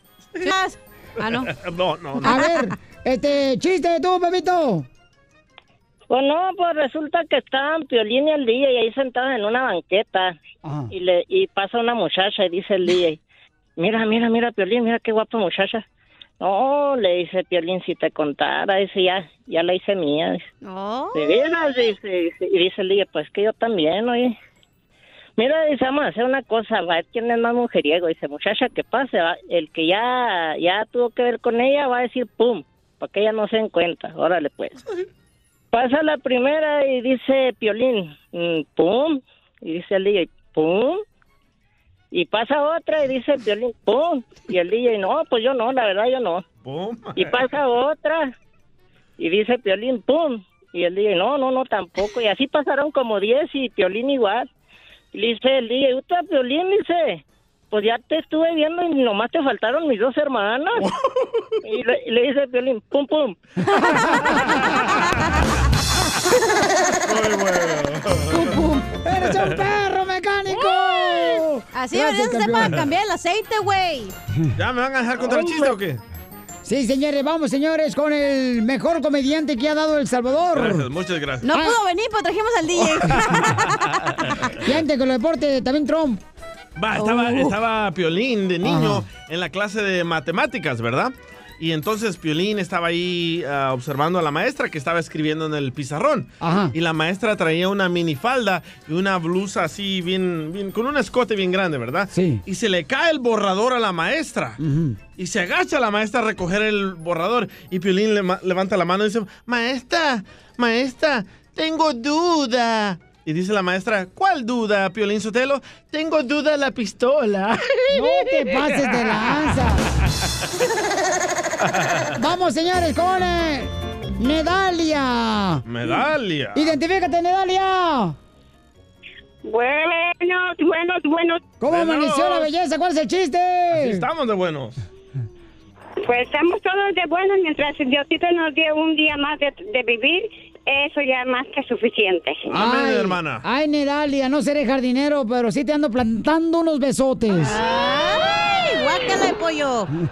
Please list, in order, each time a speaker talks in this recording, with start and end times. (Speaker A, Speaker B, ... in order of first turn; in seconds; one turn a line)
Speaker A: 0.4-1.5
Speaker B: 1.5-2.4
Speaker A: 2.2-2.6
Speaker C: 2.2-4.9
Speaker D: 6.1-10.4
Speaker C: 10.6-10.9
Speaker D: 10.9-13.2
Speaker D: 13.8-15.8
Speaker D: 16.4-20.5
Speaker A: 20.6-21.4
Speaker D: 21.1-24.4
Speaker D: 25.4-34.8
Speaker D: 35.7-41.0
Speaker D: 42.1-46.4
Speaker B: 46.6-47.5
Speaker D: 47.1-48.3
Speaker D: 49.2-54.5
Speaker D: 55.1-60.8
Speaker D: 61.6-63.4
Speaker A: 63.8-64.1
Speaker C: 63.9-64.3
Speaker B: 67.1-68.5
Speaker A: 68.3-68.9
Speaker C: 69.0-72.9
Speaker A: 70.5-74.1
Speaker B: 74.6-76.0
Speaker D: 75.2-75.7
Speaker C: 76.6-80.9
Speaker B: 80.5-81.5
Speaker A: 81.4-83.8
Speaker C: 84.6-86.2
Speaker B: 86.8-104.6
Speaker A: 87.0-87.6
Speaker C: 88.6-89.0
Speaker C: 96.4-96.8
Speaker C: 102.1-102.4
Speaker C: 104.6-105.0
Speaker B: 105.1-117.7
Speaker C: 117.9-119.8
Speaker C: 122.2-125.7
Speaker B: 125.7-126.8
Speaker C: 126.5-128.2
Speaker E: 129.4-131.4
Speaker C: 131.6-134.1
Speaker B: 131.7-132.5
Speaker B: 133.7-134.8
Speaker E: 136.1-142.5
Speaker B: 142.5-143.4
Speaker C: 142.5-147.6
Speaker A: 147.4-149.9